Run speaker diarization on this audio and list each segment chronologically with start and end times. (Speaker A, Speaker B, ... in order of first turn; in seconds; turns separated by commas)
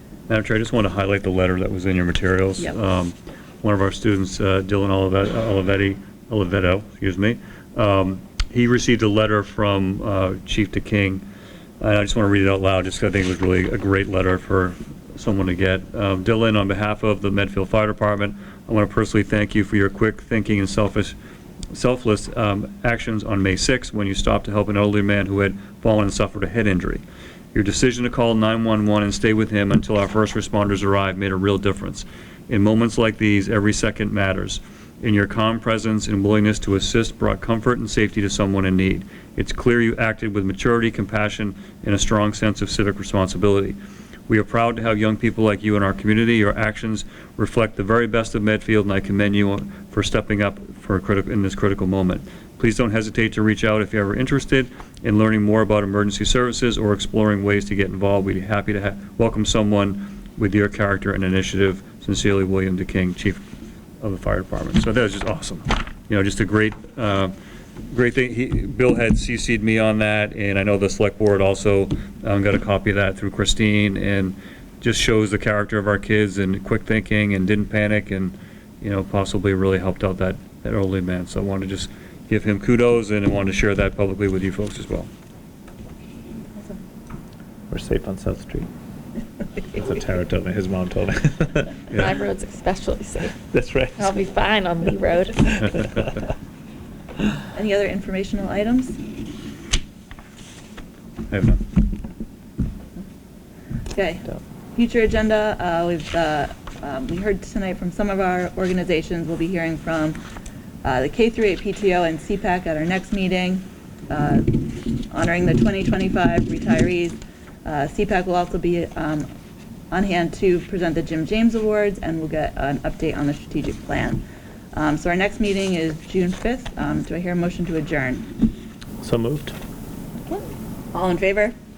Speaker A: 0.3-11.2, Speaker A: 11.8-21.1, Speaker A: 21.7-43.8, Speaker A: 44.3-63.4, Speaker A: 64.0-67.3, Speaker A: 67.9-85.1, Speaker B: 87.7-88.7, Speaker B: 89.7-91.8, Speaker A: 91.9-92.2, Speaker C: 91.9-93.3, Speaker B: 93.5-94.2, Speaker C: 94.0-95.5, Speaker B: 95.5-95.8, Speaker D: 97.5-99.0, Speaker A: 101.3-101.6, Speaker D: 103.9-110.2, Speaker D: 110.8-119.3, Speaker D: 119.9-128.3, Speaker B: 129.0-129.6, Speaker D: 130.2-131.6